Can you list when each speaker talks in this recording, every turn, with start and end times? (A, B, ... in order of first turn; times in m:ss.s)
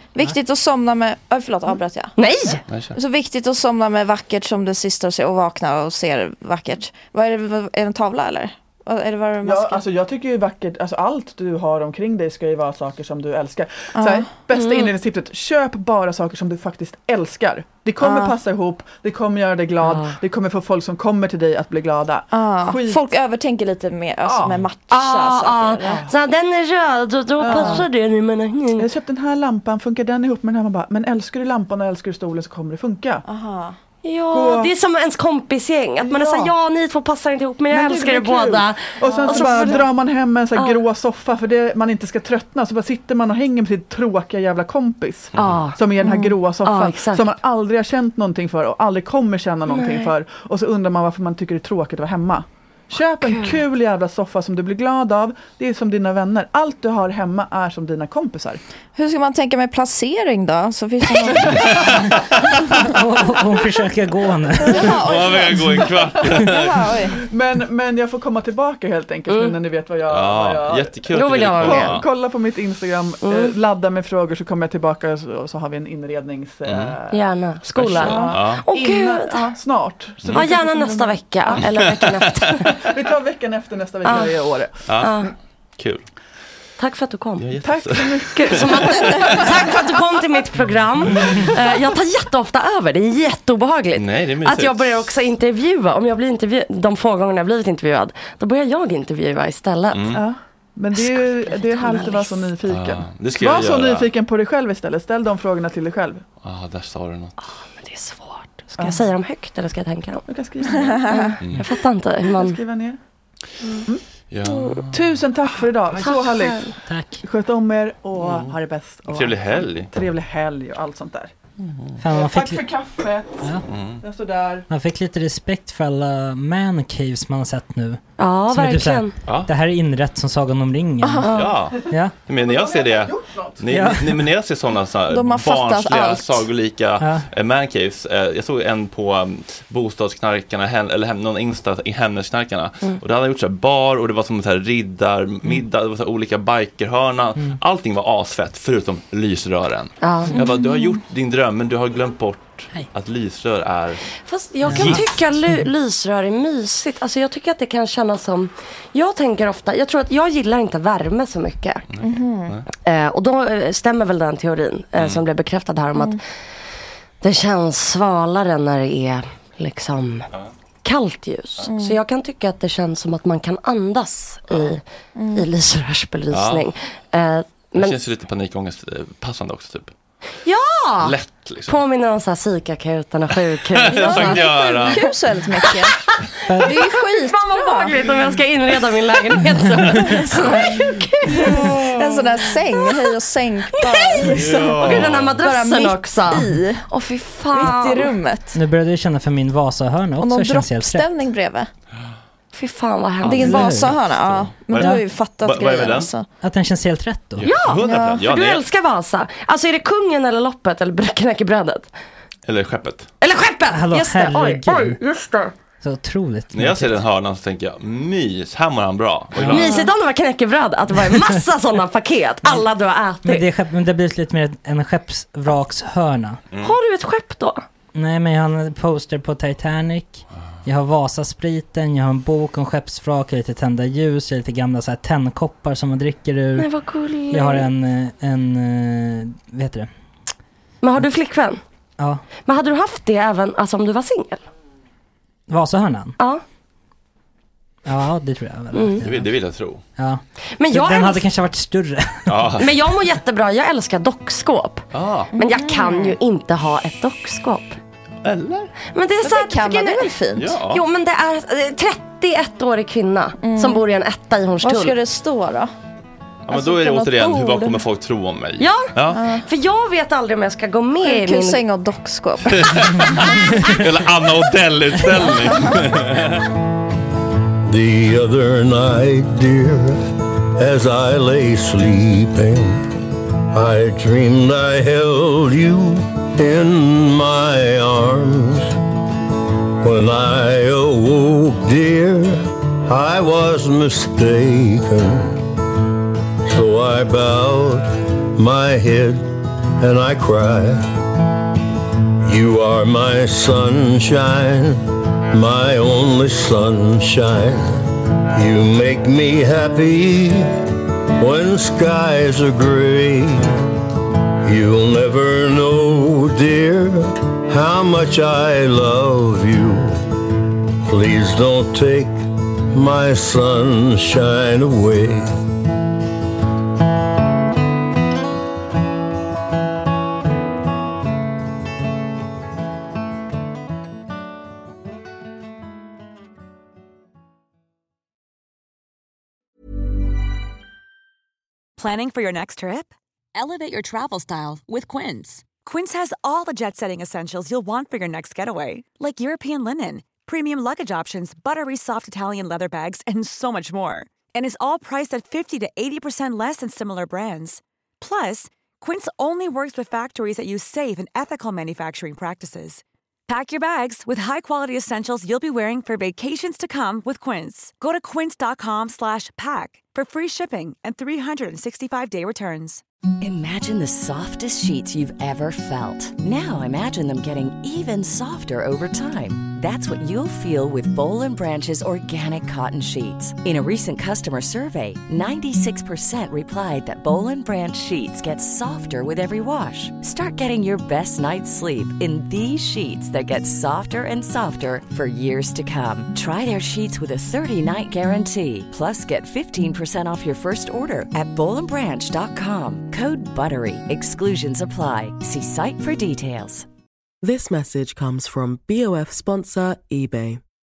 0:00.2-0:02.2 A
0:02.2-0:02.6 B
0:02.7-0:02.9 C
0:03.0-0:09.8 A
0:09.4-0:23.0 D
0:14.0-0:14.3 A
0:14.5-0:14.9 B
0:18.0-0:18.4 A
0:19.8-0:20.2 B
0:22.3-0:26.0 A
0:24.2-0:24.6 D
0:24.9-0:28.9 B
0:25.8-0:26.1 D
0:27.4-0:27.9 D
0:27.4-0:27.8 A
0:28.8-0:33.2 D
0:33.3-0:33.8 A
0:34.0-0:39.9 B
0:34.3-0:34.7 D
0:36.0-0:36.5 D
0:37.7-0:58.6 D
0:39.0-0:39.8 A
0:40.6-0:40.8 B
0:45.4-0:47.4 B
0:49.7-0:50.1 B
0:53.2-0:53.6 B
0:59.0-1:02.0 A
1:01.5-1:02.8 C
1:02.8-1:05.0 E
1:04.6-1:07.2 A
1:04.8-1:07.1 C
1:06.1-1:06.5 D
1:07.1-1:17.2 D
1:09.3-1:09.6 B
1:10.1-1:12.0 C
1:11.1-1:12.0 B
1:13.2-1:13.5 B
1:16.6-1:17.0 C
1:17.1-1:19.5 B
1:17.8-1:21.6 D
1:17.8-1:18.6 C
1:20.2-1:20.5 C
1:20.3-1:22.7 B
1:21.5-1:22.6 C
1:22.6-1:25.0 D
1:24.0-1:24.4 B
1:24.9-1:26.1 C
1:25.0-1:25.3 B
1:26.8-1:27.6 B
1:27.4-1:29.5 C
1:27.6-1:29.8 D
1:28.3-1:40.2 B
1:34.0-1:35.1 C
1:39.9-1:40.2 C
1:40.1-1:46.2 D
1:40.9-1:42.5 B
1:42.7-1:44.1 C
1:46.4-1:47.4 C
1:47.4-1:50.2 B
1:48.8-1:49.0 D
1:50.3-1:51.4 D
1:51.1-1:52.6 B
1:52.2-1:53.0 D
1:54.3-1:55.0 C
1:54.4-1:54.8 B
1:54.9-2:01.3 D
1:56.0-1:56.7 B
1:56.8-1:57.2 E
1:58.2-1:58.5 C
1:59.1-1:59.9 C
2:01.6-2:02.0 C
2:02.0-2:02.7 E
2:02.1-2:04.6 D
2:03.7-2:04.0 C
2:04.7-2:12.1 E
2:08.2-2:09.2 B
2:11.0-2:11.4 A
2:11.2-2:11.6 B
2:11.3-2:34.0 C
2:11.7-2:13.6 D
2:13.7-2:14.2 E
2:15.1-2:16.5 A
2:17.0-2:17.3 E
2:30.0-2:30.5 B
2:30.3-2:30.6 A
2:34.2-2:41.8 B
2:34.7-2:35.6 E
2:34.7-2:35.0 C
2:41.9-2:42.6 C
2:42.0-2:42.6 A
2:42.8-2:46.2 B
2:45.0-2:45.2 C
2:47.2-2:50.3 B
2:50.8-2:54.8 B
2:51.7-2:52.0 A
2:55.2-2:55.5 A
2:55.4-2:58.0 B
2:56.3-2:56.7 C
2:57.8-2:59.9 C
3:00.4-3:13.1 B
3:01.0-3:01.8 C
3:03.8-3:05.0 C
3:03.9-3:06.0 A
3:06.5-3:06.7 E
3:06.6-3:08.3 A
3:09.9-3:16.9 A
3:13.7-3:18.2 B
3:14.3-3:15.4 C
3:17.6-3:18.6 A
3:18.5-3:21.1 E
3:20.2-3:21.7 A
3:22.5-3:23.8 B
3:23.2-3:26.1 C
3:23.3-3:26.3 A
3:23.3-3:24.0 E
3:24.8-3:25.0 E
3:26.4-3:27.5 E
3:27.4-3:28.6 C
3:27.4-3:31.9 B
3:27.8-3:28.2 A
3:32.5-3:33.1 C
3:33.2-3:35.5 B
3:33.7-3:35.0 E
3:35.8-3:37.0 E
3:36.5-3:39.8 C
3:39.4-3:39.7 E
3:39.4-3:43.5 B
3:43.2-3:46.4 E
3:46.6-3:47.6 B
3:47.9-3:56.7 E
3:56.6-3:57.7 B
3:57.3-3:59.9 E
4:00.8-4:01.6 B
4:02.0-4:02.2 E
4:02.4-4:04.4 B
4:05.5-4:06.2 E
4:07.9-4:09.3 E
4:08.7-4:09.0 B
4:09.0-4:09.8 C
4:10.0-4:12.5 E
4:10.6-4:11.3 B
4:12.3-4:12.7 C
4:12.6-4:17.8 B
4:14.9-4:15.3 C
4:15.4-4:16.2 A
4:18.2-4:18.7 C
4:18.9-4:25.0 B
4:19.2-4:20.6 A
4:20.4-4:20.8 C
4:23.4-4:23.9 A
4:24.6-4:25.7 A
4:26.5-4:29.2 C
4:26.5-4:27.7 A
4:28.6-4:31.6 B
4:29.1-4:29.4 A
4:31.0-4:33.7 A
4:32.5-4:36.5 C
4:37.7-4:40.0 F
4:40.6-4:42.8 F
4:43.5-4:48.7 F
4:49.8-4:55.4 F
4:56.5-5:00.9 F
5:02.3-5:10.6 F
5:11.2-5:13.4 F
5:14.4-5:20.0 F
5:20.9-5:25.3 F
5:41.8-6:12.8 G
6:13.2-6:46.7 H
6:47.2-6:50.4 I